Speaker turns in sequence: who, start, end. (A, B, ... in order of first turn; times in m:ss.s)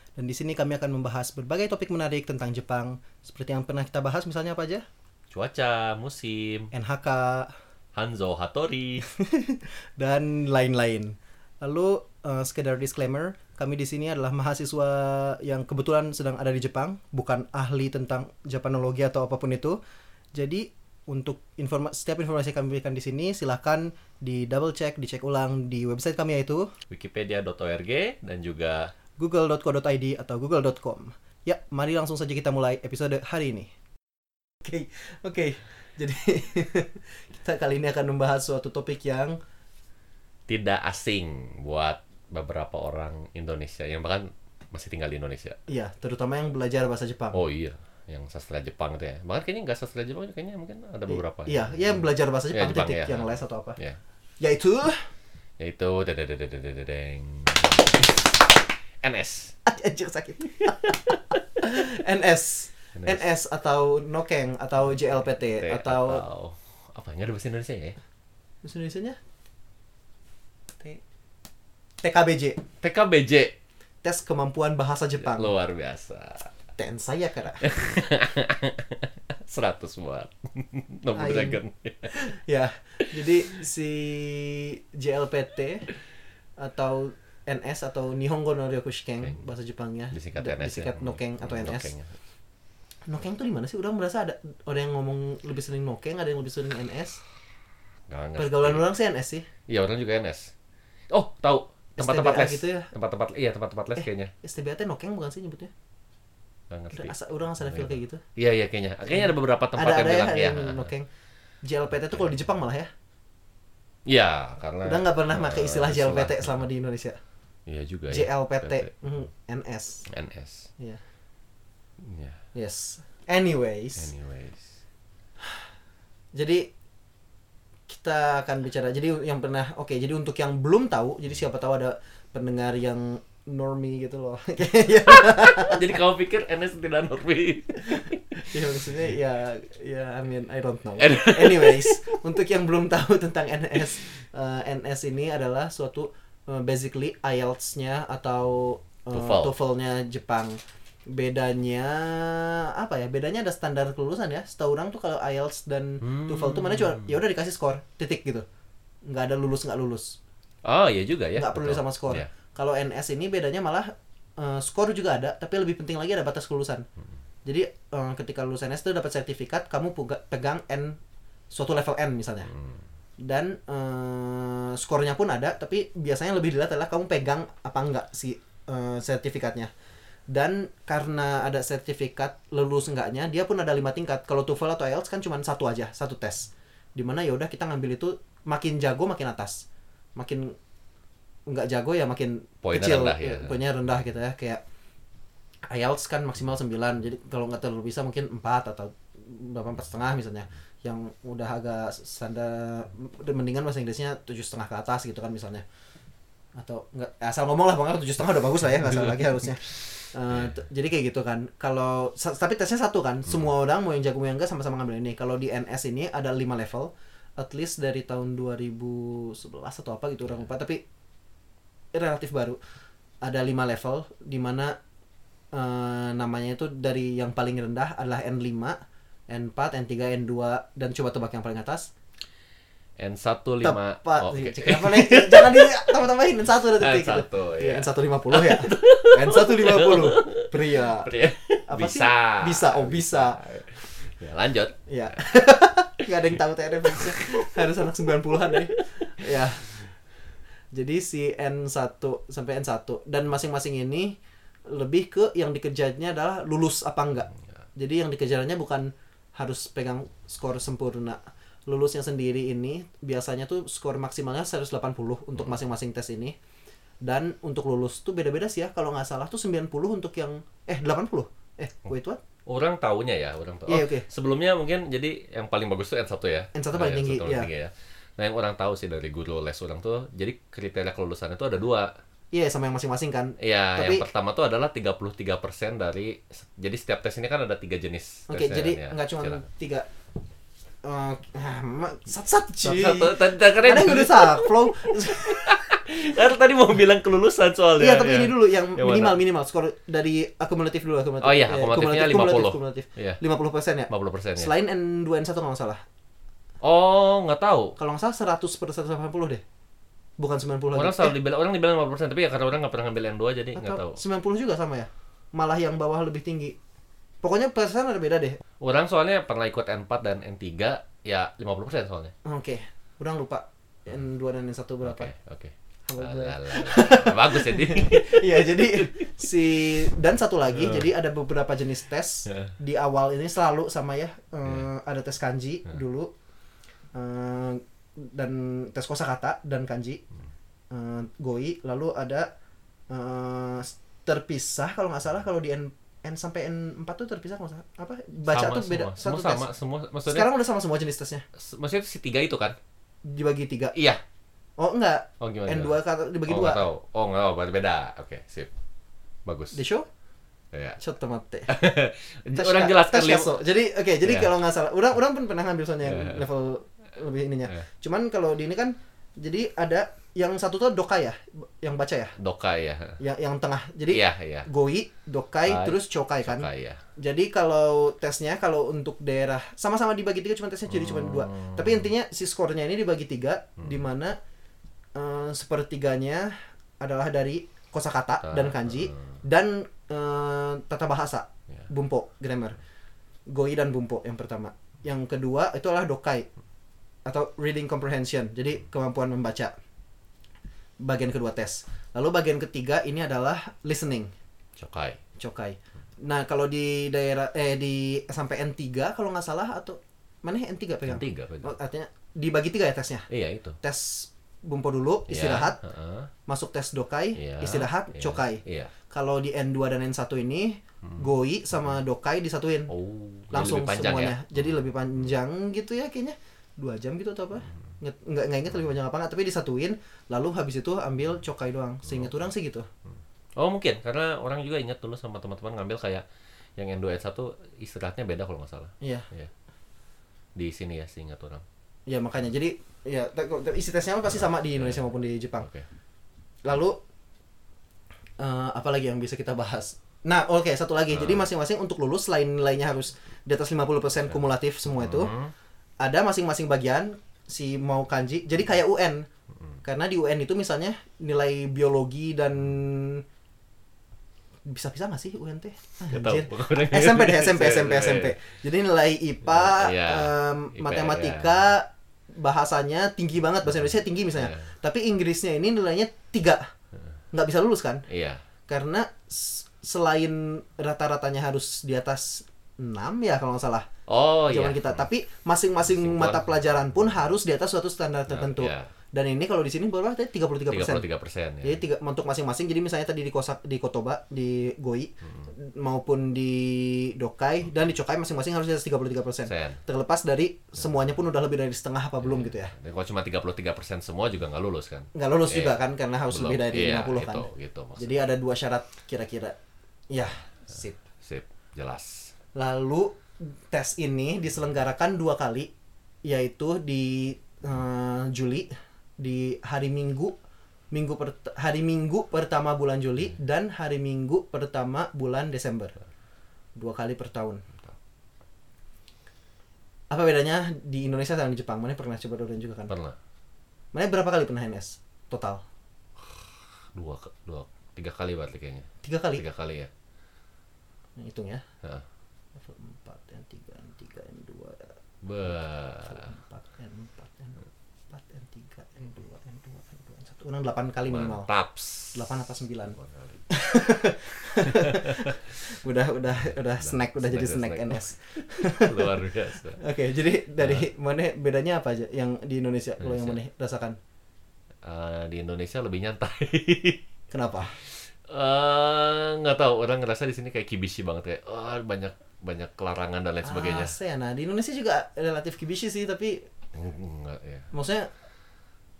0:00.2-0:04.8 A
0:05.3-0:06.7 B
0:06.7-0:07.5 A
0:07.9-0:09.0 B
0:09.0-0:19.8 A
0:20.3-0:26.7 A
0:26.9-0:28.9 B
0:29.2-0:33.7 A
0:34.6-0:39.4 A
0:40.5-0:45.6 B
0:45.7-0:47.4 A
0:47.3-0:54.0 B
0:51.1-0:53.8 A
0:54.4-0:55.1 A
0:55.6-0:59.5 B
0:59.6-1:01.0 A
1:00.6-1:01.6 B
1:01.6-1:06.2 A
1:03.0-1:03.2 B
1:05.5-1:08.0 B
1:08.6-1:09.2 A
1:12.0-1:12.6 A
1:12.8-1:13.5 B
1:14.0-1:15.5 A
1:15.2-1:16.5 B
1:16.8-1:17.7 A
1:17.6-1:22.2 B
1:21.1-1:25.9 A
1:26.6-1:31.9 A
1:30.1-1:32.1 B
1:33.1-1:37.2 A
1:38.1-1:38.8 B
1:38.4-1:39.5 A
1:39.7-1:40.5 B
1:41.1-1:44.3 B
1:42.0-1:42.9 A
1:44.0-1:45.7 A
1:46.7-1:50.9 B
1:46.9-1:48.2 A
1:49.1-1:51.1 A
1:51.6-1:52.9 A
1:54.0-1:56.6 B
1:54.8-1:57.2 A
1:57.6-1:58.9 B
1:58.1-2:00.0 A
2:00.1-2:00.7 B
2:02.0-2:02.4 B
2:02.5-2:04.1 A
2:04.0-2:04.8 B
2:06.3-2:06.7 A
2:07.9-2:16.0 A
2:15.1-2:18.6 B
2:17.9-2:38.4 A
2:21.0-2:21.9 B
2:29.1-2:29.5 B
2:36.0-2:37.2 B
2:39.0-2:40.2 A
2:40.6-2:42.3 B
2:41.4-2:46.8 A
2:47.4-2:51.0 A
2:51.5-2:52.5 A
2:53.2-2:59.7 A
3:00.3-3:09.6 A
3:10.2-3:10.5 A
3:11.5-3:14.6 A
3:12.6-3:13.6 B
3:15.7-3:25.6 A
3:26.6-3:40.8 A
3:41.9-3:42.6 A
3:43.2-3:44.8 A
3:45.5-3:48.8 A
3:49.3-3:51.9 A
3:53.0-3:56.0 B
3:53.6-4:01.1 A
3:56.7-4:04.8 B
4:01.7-4:03.8 A
4:04.9-4:09.8 A
4:06.8-4:07.9 B
4:08.4-4:08.8 B
4:10.7-4:26.4 A
4:27.0-4:32.2 A
4:32.5-4:41.9 B
4:33.7-4:34.0 A
4:36.5-4:37.5 A
4:42.3-4:44.0 A
4:43.4-4:49.4 B
4:48.3-4:49.9 A
4:50.8-4:55.6 A
4:52.6-4:59.2 B
4:57.8-5:05.8 A
5:01.2-5:03.2 B
5:03.9-5:04.5 B
5:06.6-5:07.7 B
5:07.8-5:09.4 A
5:10.2-5:11.1 A
5:10.7-5:14.0 B
5:13.5-5:16.6 A
5:17.2-5:18.4 A
5:18.6-5:22.1 B
5:22.2-5:25.1 A
5:24.8-5:29.2 B
5:25.9-5:36.1 A
5:30.5-5:30.9 B
5:32.3-5:32.5 B
5:36.9-5:40.0 A
5:40.7-5:42.3 A
5:42.9-5:49.5 A
5:48.3-5:50.3 B
5:50.1-5:51.2 A
5:51.3-5:52.6 B
5:53.0-5:53.7 A
5:53.7-5:54.0 B
5:54.6-5:56.6 A
5:55.2-5:58.5 B
5:59.2-5:59.6 B
5:59.5-5:59.8 A
6:00.5-6:00.8 B
6:00.8-6:01.5 A
6:01.5-6:03.4 B
6:02.3-6:12.1 A
6:04.0-6:04.3 B
6:05.8-6:06.2 B
6:12.2-6:13.0 B
6:13.0-6:24.2 A
6:13.9-6:14.5 B
6:15.4-6:16.8 B
6:20.7-6:21.9 B
6:24.9-6:32.6 A
6:28.2-6:29.1 B
6:33.3-6:36.3 A
6:37.0-6:39.5 A
6:40.8-6:44.1 A
6:44.6-6:45.0 B
6:45.2-6:53.1 A
6:50.8-6:51.6 B
6:53.1-6:53.6 B
6:53.6-6:55.6 A
6:55.1-6:56.1 B
6:56.3-7:02.7 A
6:57.2-6:58.7 B
7:00.8-7:01.1 B
7:02.7-7:04.6 B
7:03.3-7:12.7 A
7:11.9-7:12.2 B
7:13.4-7:16.0 B
7:16.6-7:19.3 B
7:18.8-7:19.1 A
7:20.4-7:21.4 B
7:21.9-7:25.5 A
7:24.1-7:24.8 B
7:25.4-7:25.6 B
7:26.4-7:26.8 A
7:28.2-7:35.1 A
7:30.9-7:31.2 B
7:34.6-7:35.3 B
7:35.8-7:39.1 A
7:39.6-7:43.0 A
7:44.5-7:56.5 A
7:45.9-7:48.1 B
7:49.2-7:51.4 B
7:54.1-7:54.5 B
7:57.1-7:57.8 A
7:57.9-7:58.2 B
7:58.5-8:03.7 A
8:03.9-8:04.8 B
8:04.3-8:10.8 A
8:05.6-8:06.8 B
8:08.1-8:08.7 B
8:10.5-8:11.6 B
8:11.4-8:22.5 A
8:15.0-8:15.3 B
8:19.3-8:19.6 B
8:22.0-8:28.0 B
8:24.9-8:29.4 A
8:29.9-8:30.8 A
8:31.0-8:32.1 B
8:32.3-8:35.5 A
8:36.0-8:40.1 A
8:40.7-8:45.8 A
8:46.6-8:47.4 A
8:49.9-8:52.7 A
8:52.7-8:53.0 B
8:53.7-8:55.4 A
8:56.0-8:59.7 B
8:58.8-8:59.2 A
9:01.0-9:01.4 A
9:02.4-9:04.7 A
9:05.0-9:06.1 B
9:05.8-9:11.3 A
9:10.9-9:12.0 B
9:11.9-9:12.8 A
9:12.8-9:13.2 B
9:13.3-9:19.0 A
9:14.4-9:15.2 B
9:16.2-9:19.6 B
9:19.6-9:23.8 A
9:20.4-9:20.6 B
9:22.8-9:23.2 B
9:24.6-9:26.8 B
9:27.1-9:27.6 A
9:27.6-9:33.7 B
9:33.2-9:36.3 A
9:36.5-9:37.5 B
9:37.5-9:37.9 A